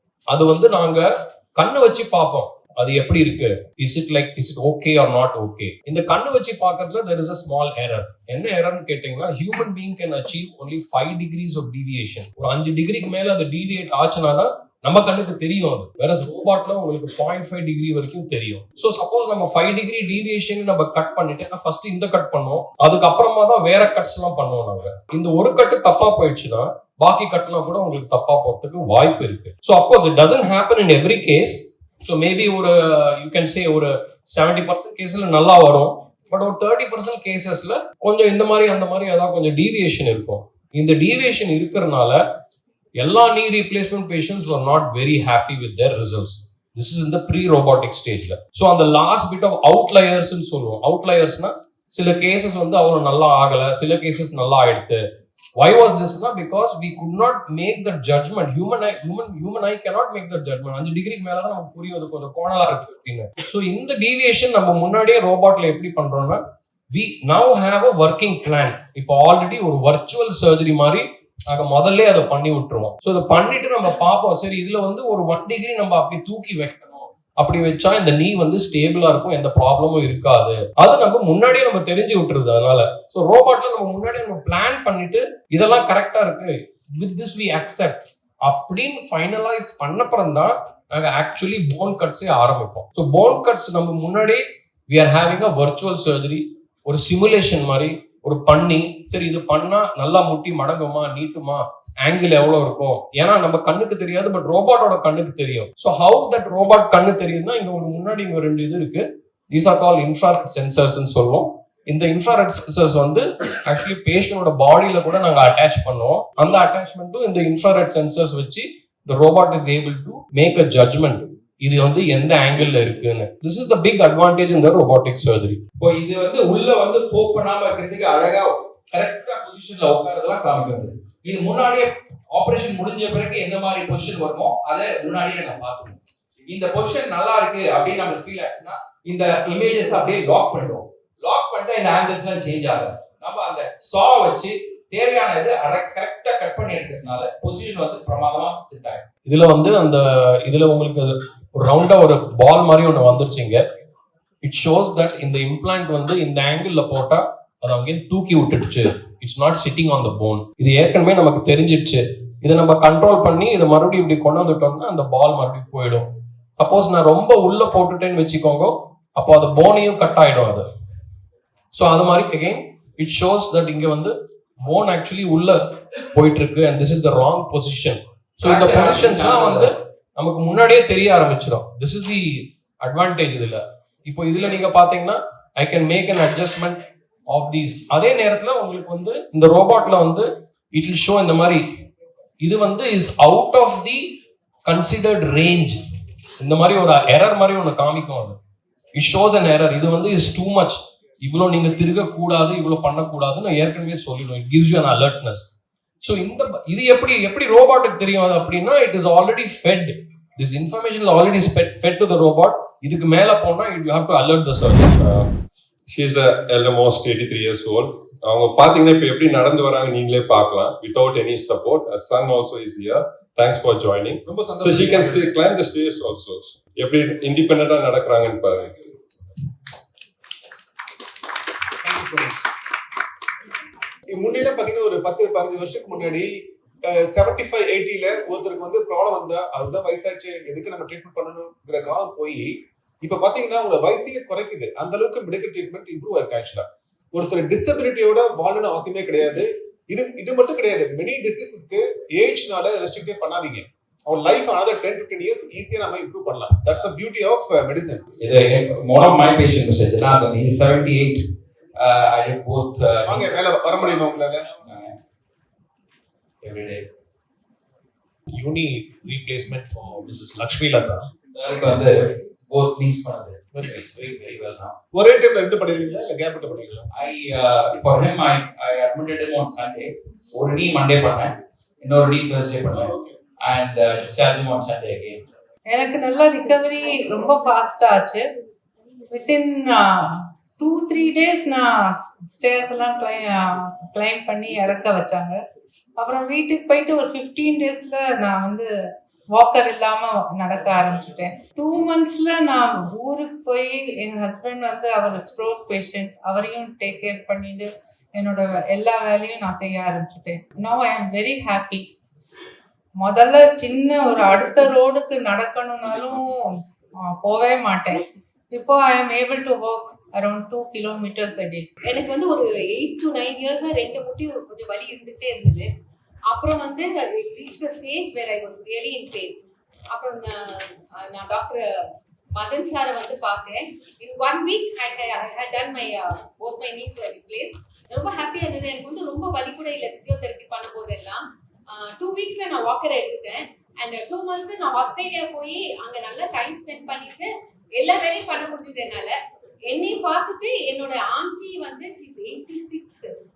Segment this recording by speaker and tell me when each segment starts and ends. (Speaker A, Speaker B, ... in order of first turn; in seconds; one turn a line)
Speaker A: 0.3-42.2
Speaker A: 43.0-55.0
Speaker A: 55.6-125.6
Speaker B: 125.8-149.0
Speaker A: 149.3-153.6
Speaker A: 154.4-166.1
Speaker A: 166.6-170.6
Speaker A: 171.7-191.6
Speaker B: 178.4-179.7
Speaker A: 192.4-195.8
Speaker A: 196.4-198.4
Speaker A: 198.9-205.5
Speaker A: 206.0-215.0
Speaker C: 215.9-228.8
Speaker D: 224.3-225.4
Speaker D: 231.8-232.5
Speaker D: 234.1-236.3
Speaker D: 236.9-242.5
Speaker D: 243.0-258.0
Speaker B: 258.2-261.2
Speaker B: 261.8-263.4
Speaker D: 263.1-264.4
Speaker B: 264.6-264.9
Speaker B: 266.4-266.8
Speaker D: 268.3-271.1
Speaker B: 271.3-274.7
Speaker D: 274.9-276.9
Speaker B: 276.9-285.2
Speaker E: 285.7-288.2
Speaker E: 289.1-295.4
Speaker E: 296.0-298.7
Speaker E: 299.3-311.9
Speaker E: 313.0-321.7
Speaker F: 321.8-325.7
Speaker F: 326.3-329.4
Speaker F: 329.9-349.2
Speaker F: 349.7-353.1